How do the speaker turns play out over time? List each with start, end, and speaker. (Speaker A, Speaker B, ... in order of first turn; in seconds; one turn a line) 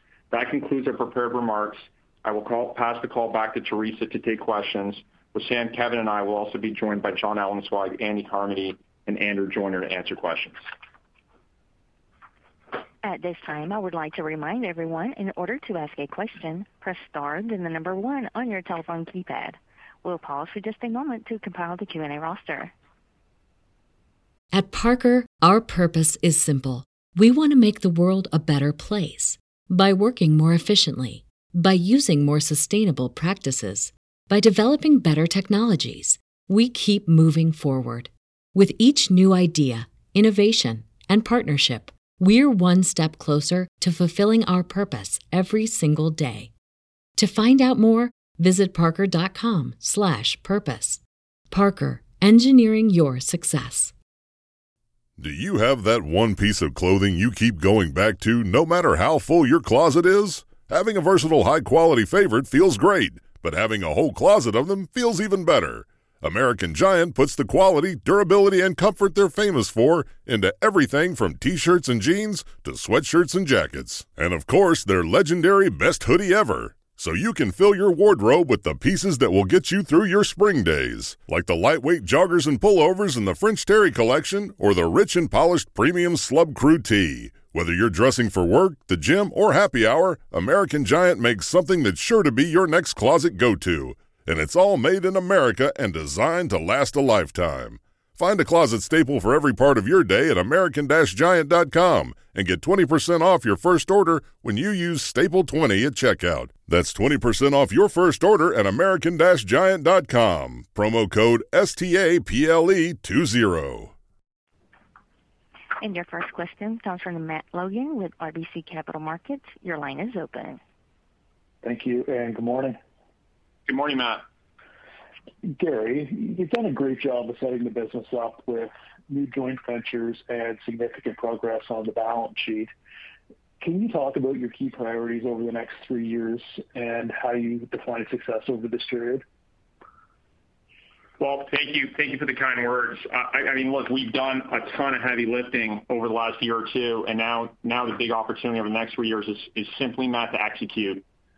Speaker A: 0.3-10.6
Speaker B: 13.0-22.7
Speaker C: 24.5-46.5
Speaker C: 47.2-53.9
Speaker D: 55.2-113.9
Speaker B: 115.8-120.6
Speaker E: 121.6-122.8
Speaker A: 123.7-124.2
Speaker E: 125.4-132.7
Speaker E: 133.6-139.2
Speaker A: 141.2-151.0